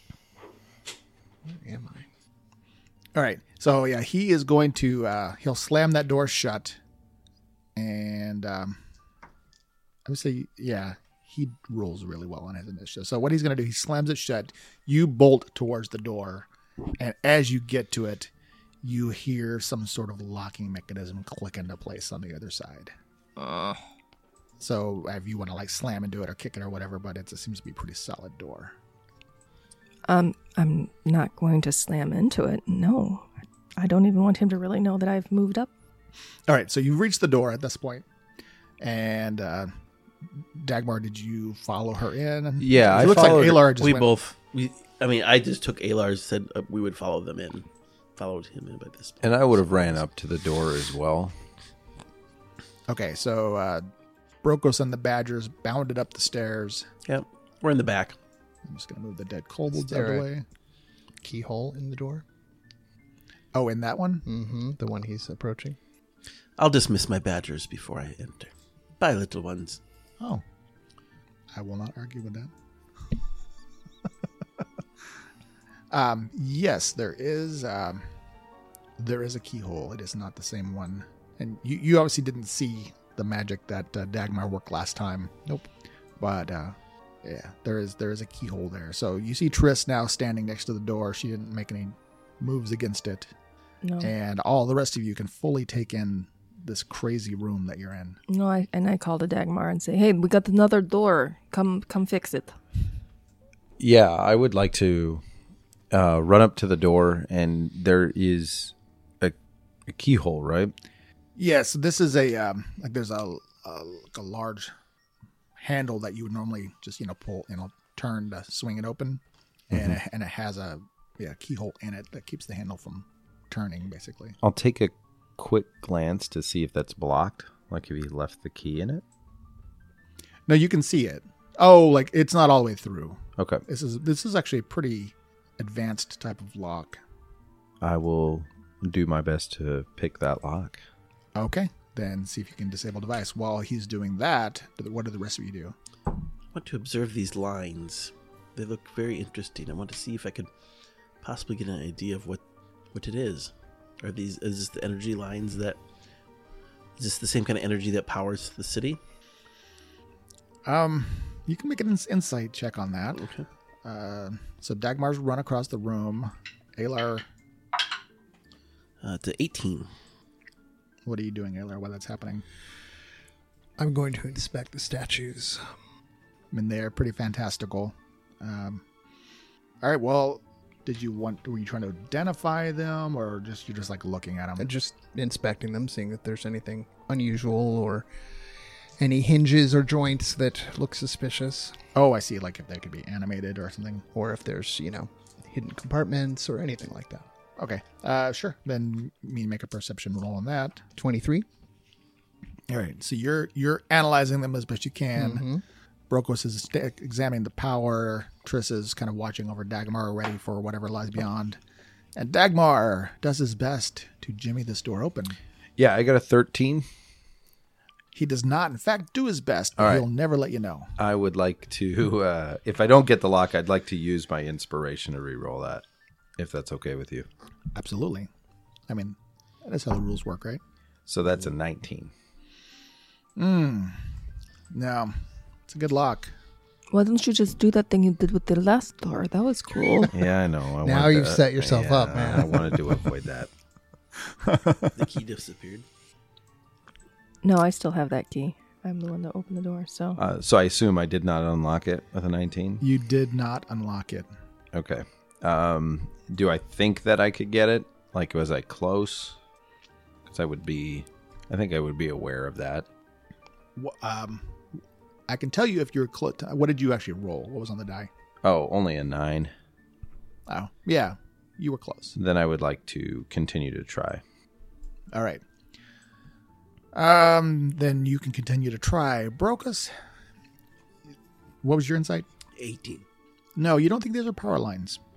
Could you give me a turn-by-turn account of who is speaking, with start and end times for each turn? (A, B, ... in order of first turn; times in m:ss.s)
0:01.4-0:02.1 A
0:03.2-0:06.8 B
0:07.8-0:08.8 B
0:10.1-0:16.5 B
0:17.0-0:18.3 B
0:18.8-0:22.9 B
0:23.4-0:23.8 C
0:24.6-0:28.7 B
0:30.1-0:35.7 C
0:36.5-0:38.1 B
0:38.8-0:39.7 B
0:40.4-0:44.1 B
0:42.6-0:43.7 D
0:42.9-0:50.0 E
0:49.2-0:51.3 D
0:52.9-0:53.9 B
0:54.4-0:56.9 B
0:57.1-0:58.2 E
0:58.7-1:00.4 B
0:59.8-1:00.3 A
1:01.2-1:02.2 A
1:03.5-1:04.2 B
1:04.2-1:05.8 A
1:06.6-1:09.8 E
1:11.5-1:12.5 B
1:15.9-1:18.1 B
1:19.0-1:25.4 B
1:26.2-1:33.3 B
1:33.8-1:34.1 C
1:34.0-1:38.2 B
1:38.3-1:42.6 C
1:43.8-1:45.2 D
1:45.9-1:49.4 D
1:49.9-1:50.7 D
1:51.4-1:54.7 B
1:55.6-2:04.4 B
2:04.4-2:09.0 D
2:10.5-2:17.0 B
2:13.4-2:13.6 D
2:17.8-2:20.8 D
2:21.4-2:25.8 B
2:26.5-2:30.5 E
2:31.2-2:32.4 E
2:32.9-2:35.8 E
2:37.0-2:39.0 E
2:40.7-2:43.2 B
2:43.2-2:43.5 E
2:43.8-2:47.2 B
2:49.0-2:49.9 E
2:51.1-2:52.4 B
2:53.8-2:55.7 A
2:56.5-2:58.8 B
2:59.8-3:04.7 B
3:04.6-3:08.1 A
3:09.0-3:11.8 A
3:12.0-3:14.1 B
3:14.1-3:17.3 A
3:17.6-3:20.9 B
3:21.0-3:21.5 A
3:22.7-3:25.4 B
3:25.2-3:25.6 A
3:26.1-3:31.6 B
3:32.2-3:35.4 B
3:35.8-3:36.9 D
3:38.1-3:40.9 B
3:39.8-3:40.1 D
3:41.0-3:45.8 D
3:46.4-3:47.3 D
3:47.8-3:48.3 B
3:48.9-3:50.6 B
3:51.1-3:52.1 D
3:53.4-3:54.0 B
3:54.7-3:55.2 B
3:55.7-3:56.3 B
3:56.9-4:00.1 C
4:00.1-4:03.5 D
4:00.8-4:03.0 A
4:04.4-4:04.9 B
4:05.0-4:05.8 E
4:07.4-4:10.2 C
4:10.2-4:12.8 D
4:12.8-4:14.3 B
4:14.7-4:19.4 D
4:20.3-4:22.9 D
4:23.8-4:24.5 B
4:25.3-4:28.1 B
4:28.4-4:29.5 D
4:30.5-4:32.2 B
4:32.2-4:34.2 D
4:35.1-4:35.4 B
4:36.9-4:39.9 B
4:41.6-4:42.3 B
4:42.6-4:43.0 E
4:43.6-4:45.0 B